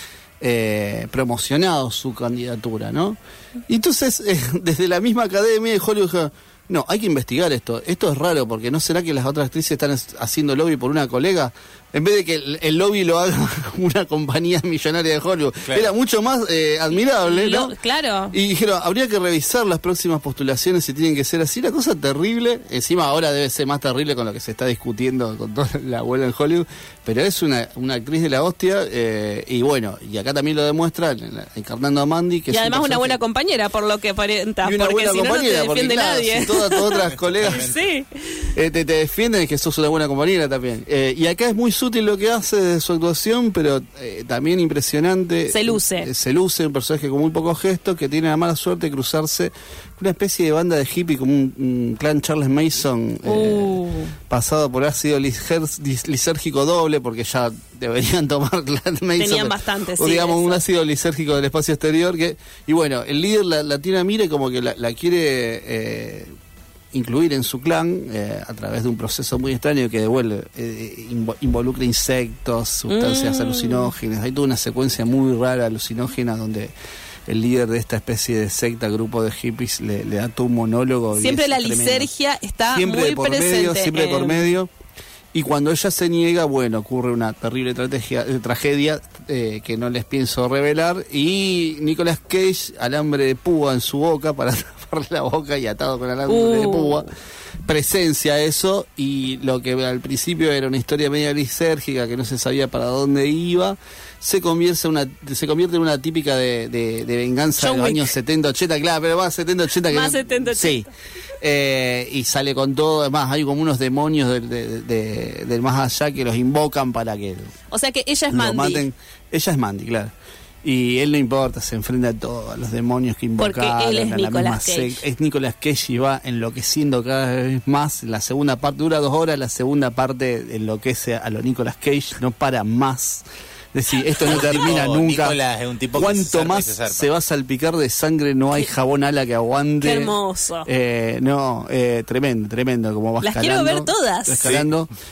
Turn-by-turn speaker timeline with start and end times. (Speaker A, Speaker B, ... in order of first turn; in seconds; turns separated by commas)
Speaker A: 0.4-17.8, Speaker B: 16.9-18.4, Speaker A: 18.3-33.2, Speaker B: 32.5-38.4, Speaker A: 34.6-37.7, Speaker C: 37.4-37.8, Speaker A: 38.5-66.3, Speaker B: 45.5-46.1, Speaker B: 53.2-54.1, Speaker B: 59.2-60.6, Speaker A: 66.9-76.7, Speaker B: 72.9-73.9, Speaker A: 77.3-82.1, Speaker B: 81.1-84.5, Speaker A: 82.7-84.7, Speaker A: 85.3-97.1, Speaker B: 96.3-97.1, Speaker A: 97.6-110.9, Speaker B: 107.6-108.1, Speaker B: 109.9-110.9, Speaker A: 111.4-117.5, Speaker B: 117.7-118.8, Speaker A: 118.3-120.1, Speaker A: 120.6-135.4, Speaker B: 123.4-125.0, Speaker C: 134.2-137.1, Speaker A: 135.9-144.9, Speaker B: 139.8-140.7, Speaker B: 143.2-144.5, Speaker C: 144.4-144.7